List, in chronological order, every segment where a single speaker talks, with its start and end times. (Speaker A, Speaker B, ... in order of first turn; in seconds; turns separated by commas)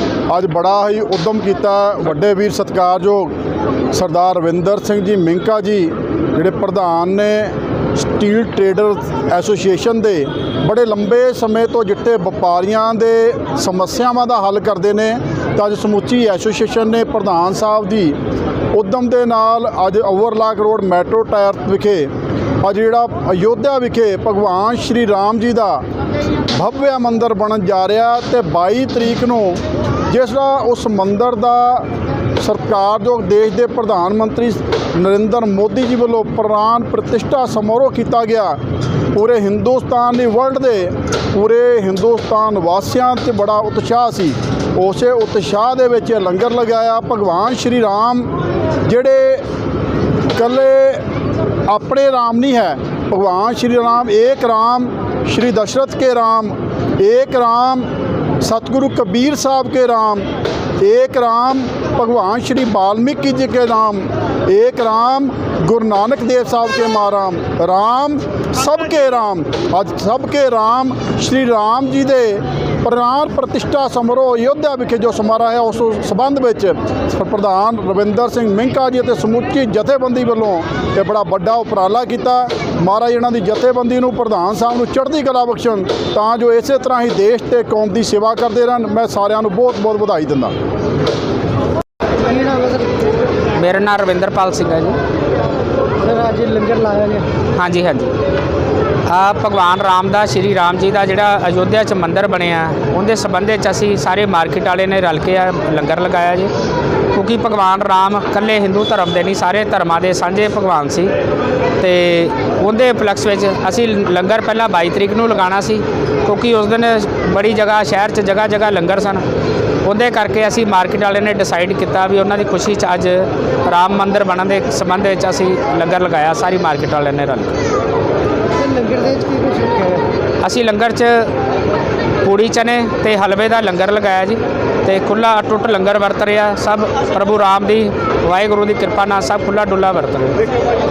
Speaker A: 0.3-3.3, Speaker A: 3.9-18.1, Speaker A: 18.7-22.1, Speaker A: 22.6-25.8, Speaker A: 26.5-31.9, Speaker A: 32.4-38.6, Speaker A: 39.1-48.3, Speaker A: 48.8-49.4, Speaker A: 50.3-51.0, Speaker A: 51.7-57.9, Speaker A: 58.4-60.3, Speaker A: 60.8-90.5, Speaker B: 92.2-92.9, Speaker C: 93.5-95.0, Speaker B: 96.0-97.3, Speaker C: 97.5-98.1, Speaker C: 99.1-106.5, Speaker C: 107.1-111.1, Speaker C: 111.8-119.2, Speaker C: 119.8-127.5, Speaker B: 128.6-130.0, Speaker C: 130.4-131.3, Speaker C: 132.2-140.4